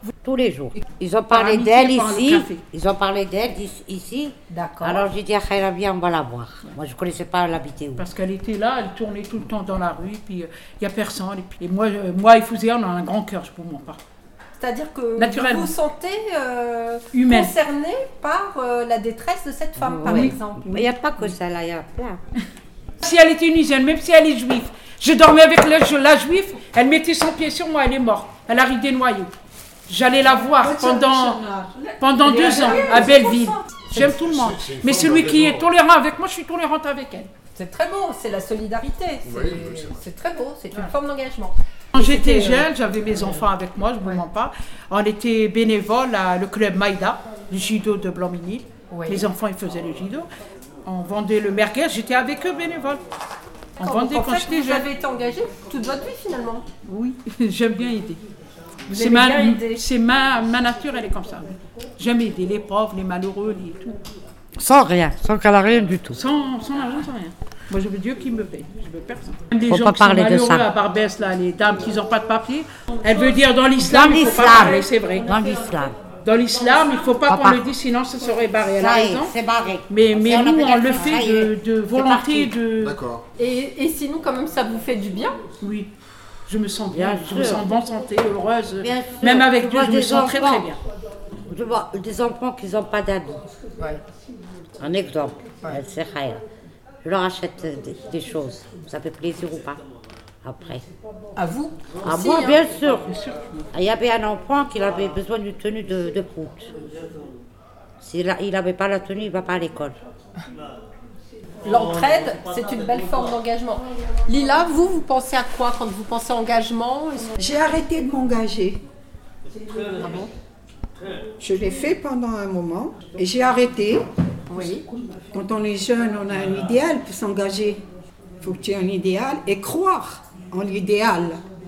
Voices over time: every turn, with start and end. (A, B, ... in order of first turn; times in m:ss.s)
0:00.2-0:08.0 A
0:01.3-0:02.6 B
0:04.5-0:05.1 C
0:08.0-0:14.0 B
0:14.6-0:20.9 C
0:15.2-0:15.7 B
0:17.1-0:17.5 B
0:19.8-0:22.2 A
0:20.0-0:20.4 B
0:23.0-0:29.3 B
0:29.9-0:31.4 B
0:30.6-0:33.5 D
0:32.0-0:37.3 B
0:32.2-0:33.4 C
0:33.9-0:35.7 E
0:37.5-0:42.7 C
0:39.2-0:40.0 E
0:41.9-0:50.3 B
0:48.9-0:49.3 C
0:50.8-0:53.0 B
0:53.8-0:56.7 C
0:53.8-0:54.9 B
0:56.8-0:58.2 B
0:58.9-0:59.8 C
0:58.9-1:04.0 B
1:04.6-1:06.2 A
1:06.1-1:15.4 B
1:09.7-1:10.6 A
1:13.8-1:15.9 A
1:16.1-1:19.3 B
1:17.3-1:17.6 A
1:18.7-1:22.5 A
1:19.9-1:23.0 B
1:22.8-1:23.2 E
1:23.4-1:25.4 C
1:25.6-1:25.9 B
1:26.4-1:30.8 B
1:26.9-1:27.6 A
1:28.8-1:30.7 A
1:31.5-1:33.4 A
1:34.8-1:36.4 A
1:37.0-1:39.8 A
1:40.4-1:40.8 A
1:41.4-1:42.6 C
1:42.0-1:43.1 A
1:42.9-1:43.7 B
1:43.7-1:46.7 A
1:48.0-1:50.0 A
1:51.6-1:57.3 C
1:57.4-1:58.8 D
2:00.0-2:00.3 C
2:01.4-2:04.0 D
2:04.5-2:04.8 C
2:05.3-2:07.8 D
2:08.4-2:11.4 D